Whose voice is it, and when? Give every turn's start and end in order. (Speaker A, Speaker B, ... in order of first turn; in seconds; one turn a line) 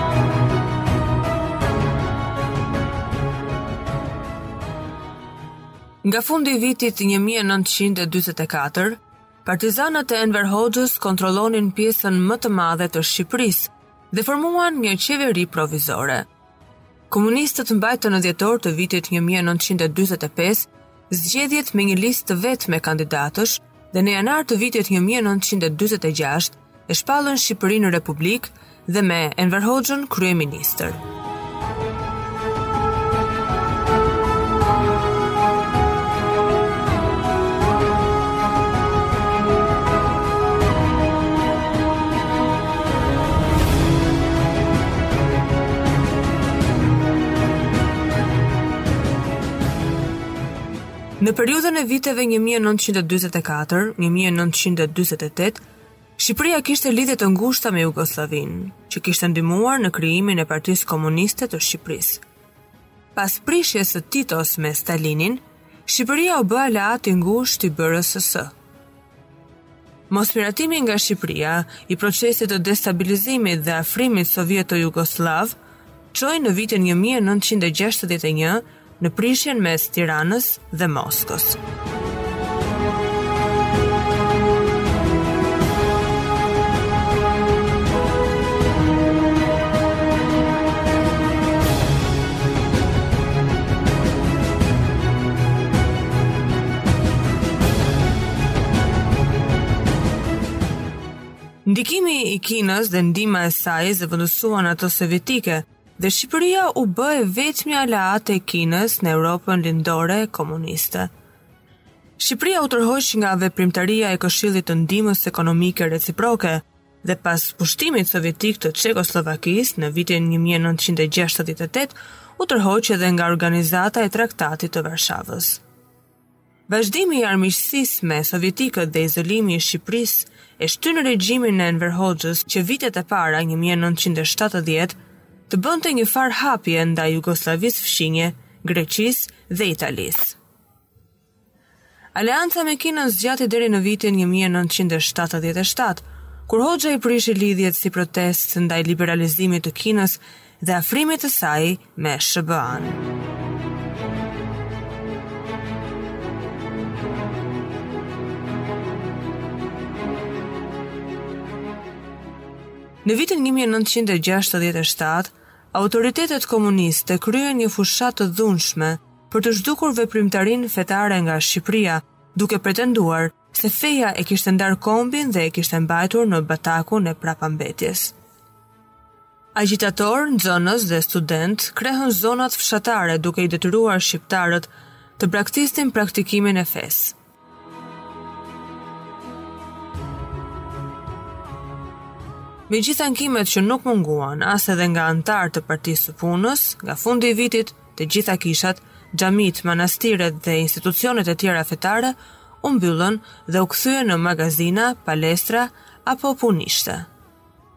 Speaker A: 6.0-16.3
Speaker A: 17.1-31.0
Speaker A: 51.2-55.6
Speaker A: 56.2-62.2
Speaker A: 63.1-68.5
Speaker A: 70.1-75.6
Speaker A: 76.1-81.6
Speaker A: 101.7-111.1
Speaker A: 112.2-125.6
Speaker A: 126.7-135.0
Speaker A: 135.5-140.4
Speaker A: 142.2-153.0
Speaker A: 163.0-178.1
Speaker A: 179.6-187.2
Speaker A: 192.7-207.1